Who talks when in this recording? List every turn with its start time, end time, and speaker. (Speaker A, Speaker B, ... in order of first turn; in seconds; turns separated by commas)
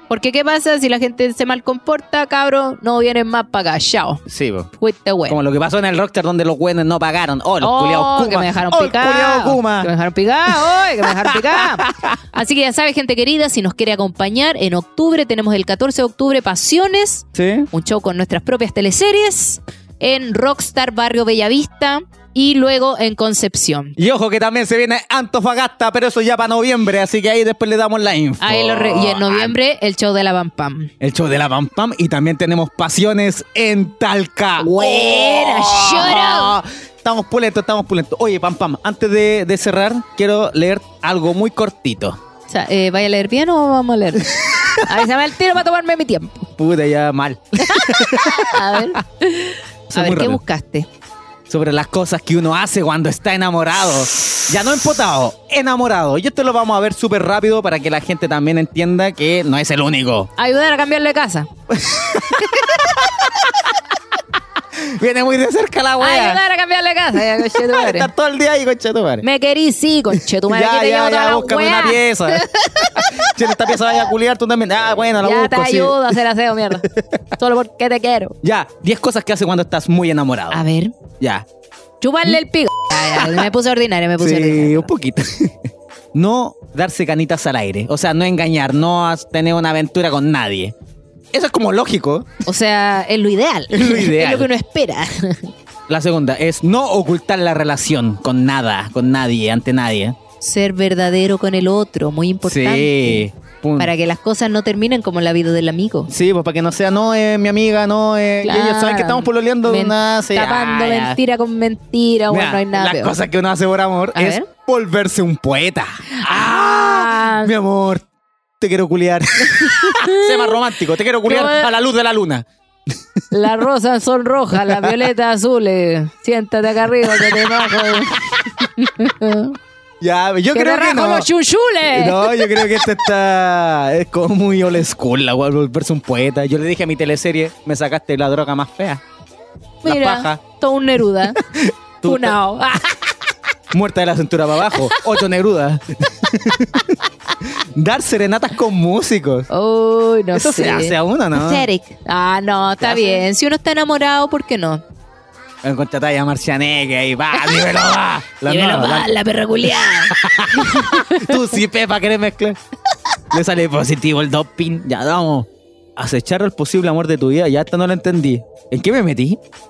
Speaker A: 0.1-4.2, Speaker B: 4.3-4.7, Speaker A: 4.8-5.4, Speaker B: 5.3-9.9, Speaker A: 7.6-23.9, Speaker B: 10.5-12.2, Speaker B: 17.3-17.7, Speaker B: 24.0-29.6, Speaker A: 28.4-30.9, Speaker B: 31.0-42.2, Speaker A: 34.6-36.5, Speaker A: 42.5-46.5, Speaker B: 46.6-49.0, Speaker A: 47.6-50.9, Speaker B: 49.9-50.4, Speaker B: 51.5-60.3, Speaker A: 60.4-61.5, Speaker B: 61.7-63.7, Speaker A: 62.3-62.6, Speaker B: 64.7-66.4, Speaker A: 66.0-68.1, Speaker B: 67.3-69.2, Speaker A: 69.2-73.9, Speaker B: 70.4-76.1, Speaker A: 75.2-78.4, Speaker B: 76.9-77.2, Speaker B: 78.4-80.6, Speaker A: 80.5-80.9, Speaker B: 81.2-81.5, Speaker A: 82.0-84.9, Speaker B: 83.1-83.5, Speaker B: 84.2-90.7, Speaker B: 91.3-92.3, Speaker A: 92.5-95.5, Speaker B: 93.7-94.5, Speaker B: 95.9-100.2, Speaker A: 100.4-103.3, Speaker B: 102.4-103.9, Speaker A: 103.8-106.1, Speaker B: 106.1-111.2, Speaker A: 108.4-113.2, Speaker B: 112.3-118.0, Speaker A: 114.1-114.5, Speaker A: 116.1-117.5, Speaker B: 118.6-122.5, Speaker A: 119.4-120.6, Speaker A: 121.2-121.7, Speaker A: 123.3-129.6, Speaker B: 124.6-125.0, Speaker B: 127.0-128.5, Speaker B: 130.0-131.3, Speaker A: 130.5-132.9, Speaker B: 131.9-139.0, Speaker A: 139.8-141.4, Speaker B: 139.8-140.4, Speaker B: 141.3-142.4, Speaker A: 142.0-143.0, Speaker B: 143.7-149.5, Speaker A: 144.7-145.0, Speaker A: 149.5-154.8, Speaker B: 150.3-151.7, Speaker B: 152.8-153.3, Speaker B: 155.6-162.6, Speaker A: 157.4-157.6, Speaker A: 158.4-161.3, Speaker B: 163.3-169.4